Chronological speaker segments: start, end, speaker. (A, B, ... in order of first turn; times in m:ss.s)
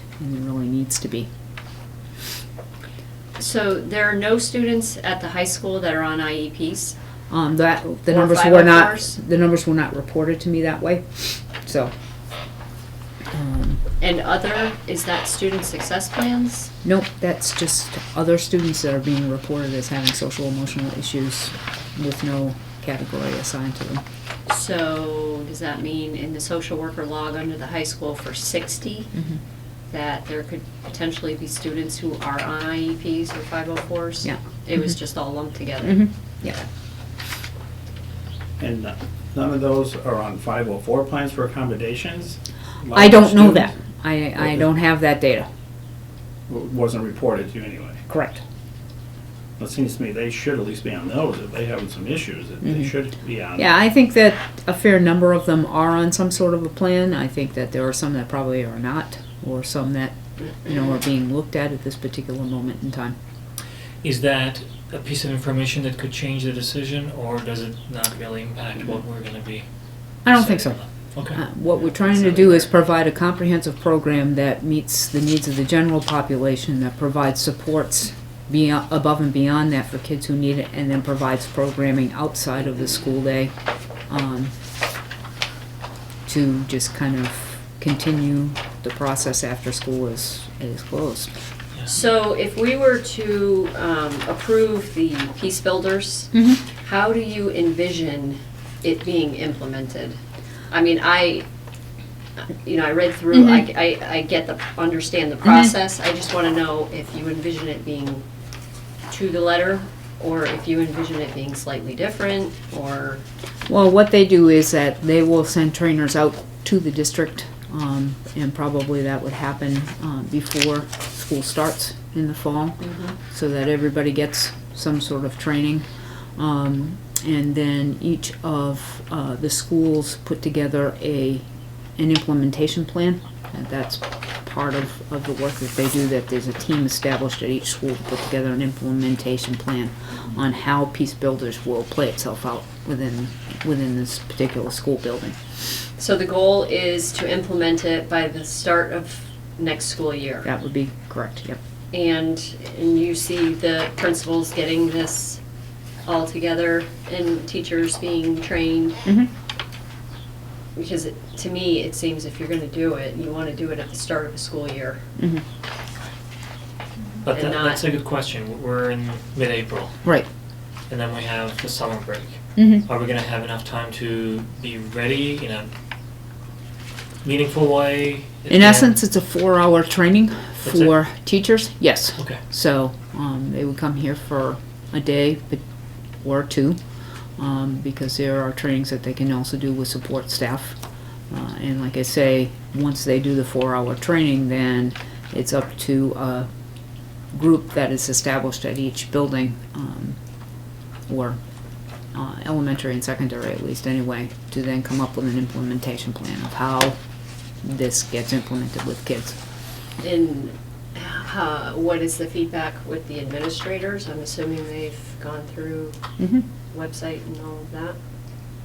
0:00.2-0:01.3 A
0:03.4-0:07.0 B
0:07.3-0:11.9 A
0:08.1-0:09.1 B
0:13.3-0:13.8 A
0:14.0-0:16.7 B
0:16.8-0:24.0 A
0:24.5-0:29.1 B
0:29.9-0:36.6 B
0:34.2-0:34.9 A
0:35.8-0:36.6 A
0:38.6-0:43.7 C
0:42.9-0:45.5 A
0:46.5-0:48.0 C
0:48.1-0:48.4 A
0:49.6-0:53.7 C
0:52.6-0:52.9 A
0:53.6-1:03.2 A
1:04.0-1:09.6 D
1:10.2-1:11.4 D
1:10.2-1:10.8 A
1:11.3-1:23.5 A
1:24.1-1:24.5 A
1:26.2-1:31.4 A
1:31.9-1:40.2 B
1:36.3-1:36.6 A
1:40.7-1:41.4 B
1:42.5-1:48.2 B
1:43.3-1:43.7 A
1:45.4-1:45.7 A
1:49.1-1:53.2 B
1:53.7-2:11.4 A
2:02.8-2:03.2 B
2:12.0-2:25.4 A
2:26.0-2:30.4 B
2:30.4-2:31.6 A
2:31.9-2:35.4 B
2:36.0-2:39.0 B
2:39.0-2:39.3 A
2:40.8-2:45.0 B
2:45.2-2:45.4 A
2:47.2-2:50.0 D
2:47.3-2:47.8 B
2:50.9-2:55.7 D
2:52.6-2:52.9 A
2:57.2-2:59.0 D
2:58.5-3:05.6 A
3:00.6-3:00.9 D
3:06.2-3:06.8 A
3:07.4-3:10.8 A
3:11.3-3:16.5 A
3:17.3-3:20.2 A
3:21.1-3:21.4 A
3:22.1-3:27.0 A
3:27.6-3:29.4 A
3:30.0-3:36.0 B
3:36.2-3:36.4 A
3:36.7-3:38.0 B